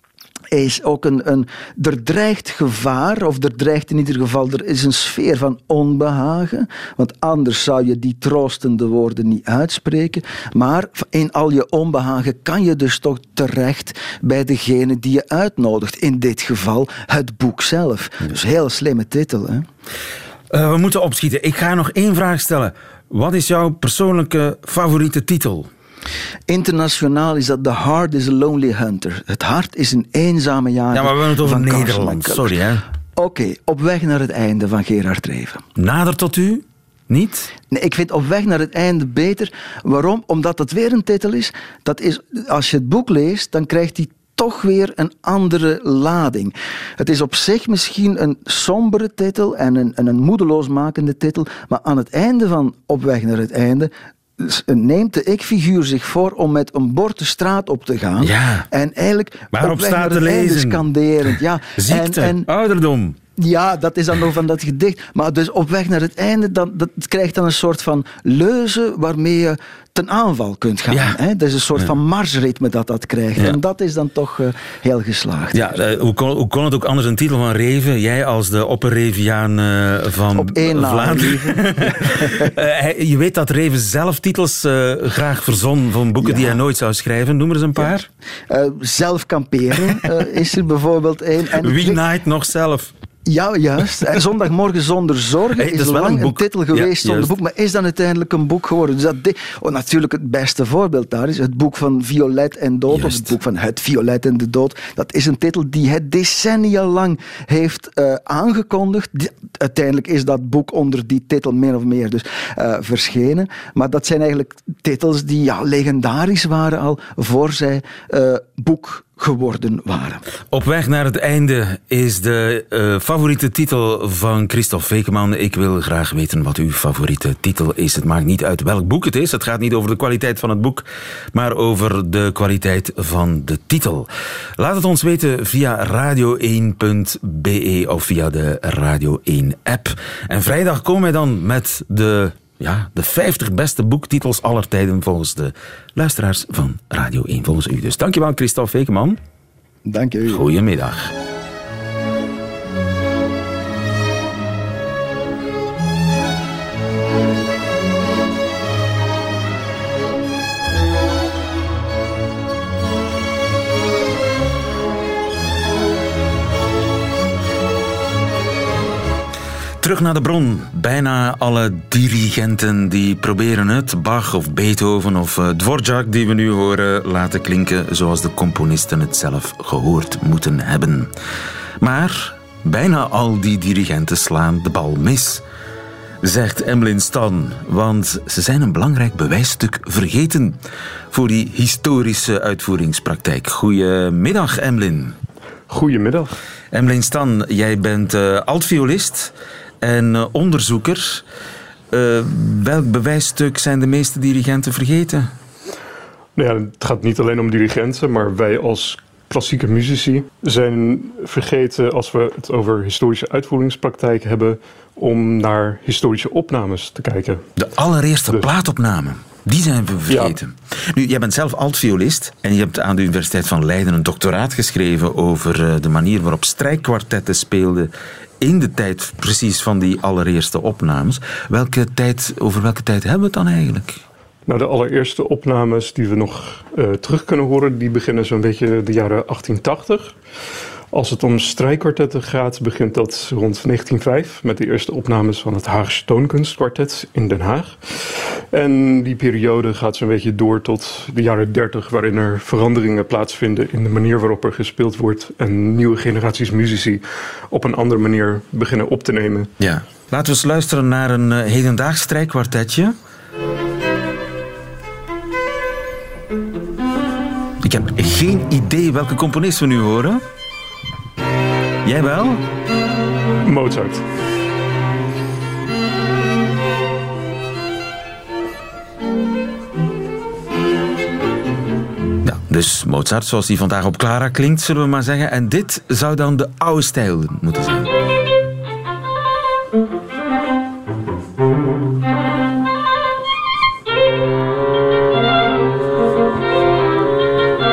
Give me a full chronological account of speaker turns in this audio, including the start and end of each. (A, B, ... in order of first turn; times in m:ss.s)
0:00.5-0:19.7 A
0:20.5-0:25.7 B
0:26.5-0:32.6 A
0:30.9-0:32.8 B
0:33.2-0:35.6 A
0:35.8-0:37.5 B
0:37.7-1:02.5 A
0:58.2-0:58.7 B
0:59.5-1:00.9 B
1:01.8-1:03.2 B
1:03.4-1:15.8 A
1:10.9-1:11.2 B
1:15.5-1:28.1 B
1:20.3-1:22.5 A
1:26.2-1:26.6 A
1:28.5-1:32.0 A
1:31.6-1:32.9 B
1:33.2-2:00.2 A
1:35.6-1:37.3 B
1:42.9-1:43.3 B
2:00.5-2:29.2 B
2:29.8-2:30.4 A
2:30.3-2:31.1 B
2:49.8-3:01.1 B
3:01.8-3:05.4 B
3:06.2-3:10.6 B
3:11.1-3:15.2 B
3:15.7-3:16.4 C
3:16.7-3:21.2 B
3:21.9-3:25.3 B
3:26.4-3:37.4 C
3:37.6-3:47.9 B
3:40.1-3:40.4 C
3:48.4-3:54.0 B
3:54.4-4:00.2 C
4:00.9-4:19.5 C
4:19.6-4:23.0 B
4:27.6-4:30.2 B
4:31.8-4:32.4 B
4:33.4-4:34.0 C
4:42.2-4:47.9 B